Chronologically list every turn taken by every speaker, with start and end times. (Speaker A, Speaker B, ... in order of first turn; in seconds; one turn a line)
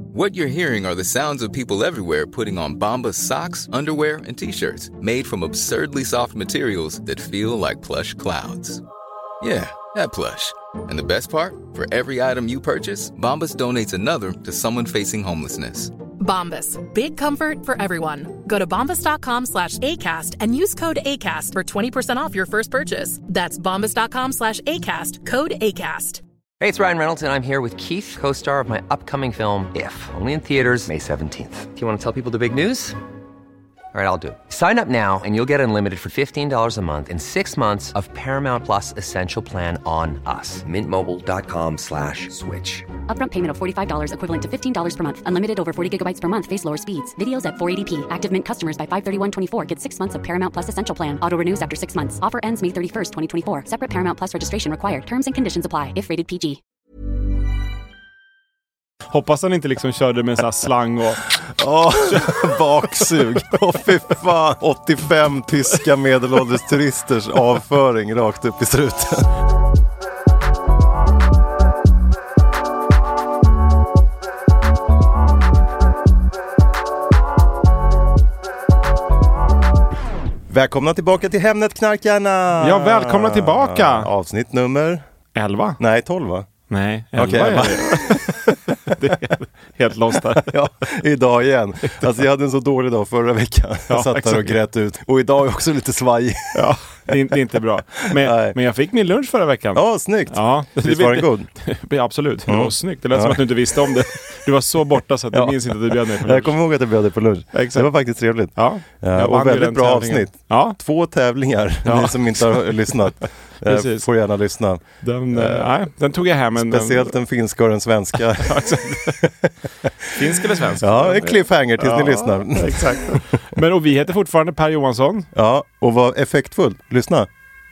Speaker A: 0.1-8.8
Speaker A: 9.4-15.9
Speaker B: 16.2-26.2
Speaker C: 26.6-33.0
Speaker C: 33.9-42.9
Speaker D: 43.1-56.6
Speaker E: 59.1-61.4
Speaker F: 61.5-69.3
Speaker E: 62.0-63.2
Speaker F: 80.5-85.0
Speaker E: 82.6-84.1
Speaker E: 85.3-85.8
Speaker F: 85.8-86.5
Speaker E: 86.7-90.6
Speaker F: 87.1-89.0
Speaker F: 90.3-96.7
Speaker E: 91.8-92.1
Speaker E: 93.9-94.6
Speaker E: 96.5-106.6
Speaker F: 98.1-98.6
Speaker F: 99.7-101.5
Speaker F: 102.5-104.0
Speaker F: 105.3-115.7
Speaker E: 107.5-107.9
Speaker E: 108.5-110.8
Speaker E: 111.8-113.0
Speaker E: 113.6-114.1
Speaker E: 115.0-117.1
Speaker F: 116.5-119.9
Speaker E: 118.3-119.2
Speaker E: 120.1-125.3
Speaker F: 120.8-123.3
Speaker F: 125.3-127.3